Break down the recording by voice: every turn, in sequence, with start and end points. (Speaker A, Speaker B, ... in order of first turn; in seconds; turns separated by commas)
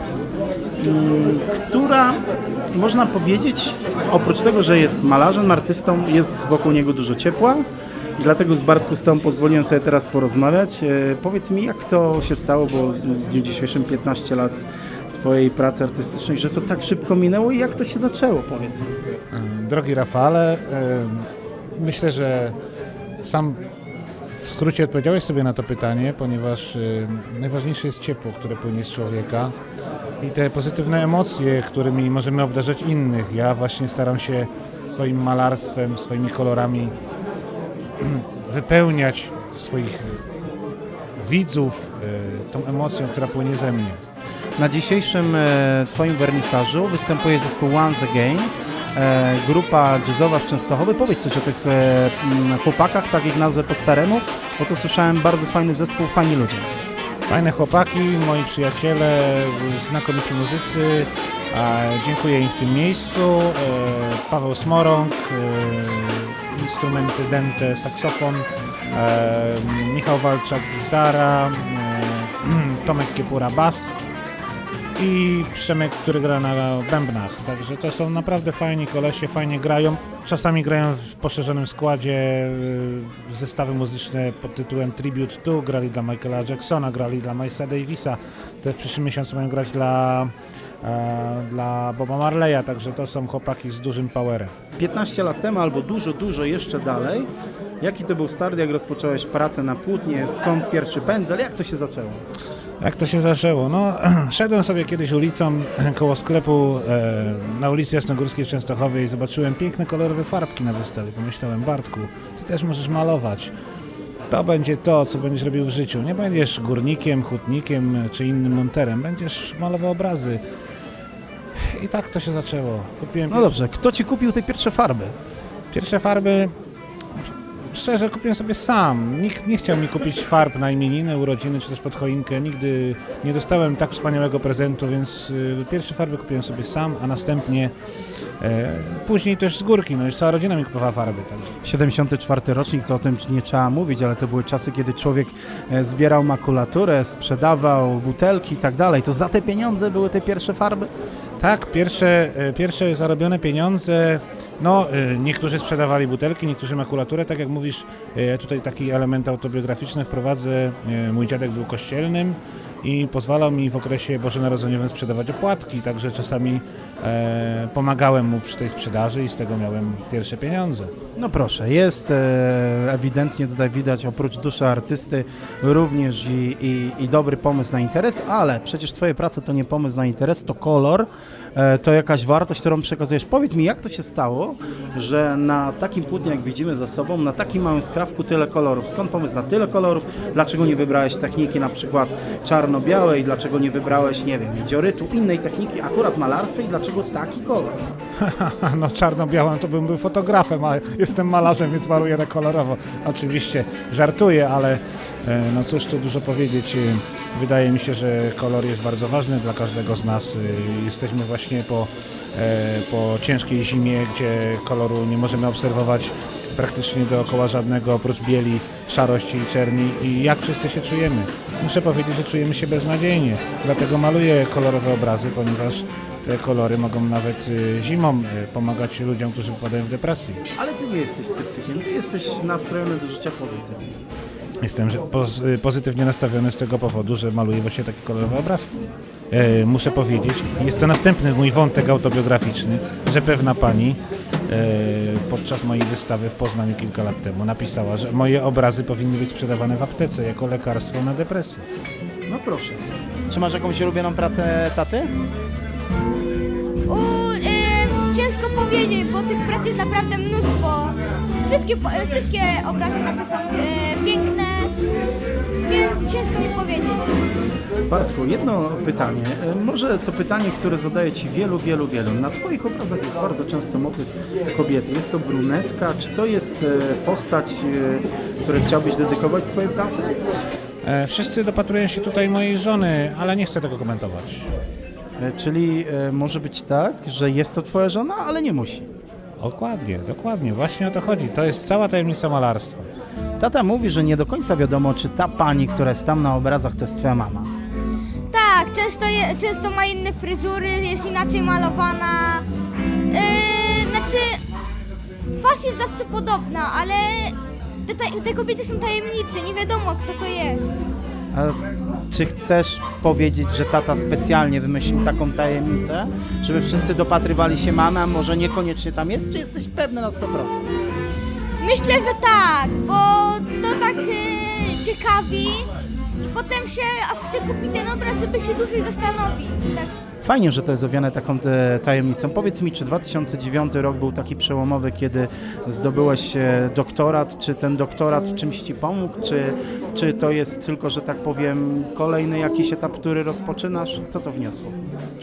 Speaker A: 0.8-2.2, Speaker A: 2.7-7.7, Speaker A: 8.2-18.9, Speaker B: 19.3-22.6, Speaker B: 23.2-23.6, Speaker B: 24.3-29.5, Speaker B: 30.2-36.9, Speaker B: 38.0-40.2, Speaker B: 41.2-44.0, Speaker A: 44.6-56.7, Speaker B: 57.3-74.0, Speaker B: 75.0-94.5, Speaker A: 94.8-97.3, Speaker A: 97.8-102.2, Speaker B: 102.8-113.5, Speaker B: 114.3-120.4, Speaker B: 121.5-123.5, Speaker A: 123.3-125.1, Speaker B: 125.7-126.5, Speaker B: 127.2-137.7, Speaker B: 138.4-141.5, Speaker A: 141.6-150.9, Speaker B: 151.4-170.9, Speaker A: 171.2-197.8, Speaker B: 198.2-230.4, Speaker A: 230.5-233.9, Speaker B: 234.6-251.6, Speaker A: 252.3-255.1, Speaker C: 256.9-264.7, Speaker C: 265.6-267.2, Speaker A: 267.9-280.2, Speaker B: 280.8-284.5, Speaker A: 285.2-288.9, Speaker B: 289.4-292.9, Speaker A: 293.4-297.5, Speaker C: 298.3-302.4, Speaker C: 303.1-304.4, Speaker C: 305.3-310.8, Speaker A: 311.3-311.6, Speaker A: 312.1-320.6, Speaker C: 321.6-329.9, Speaker A: 330.2-344.7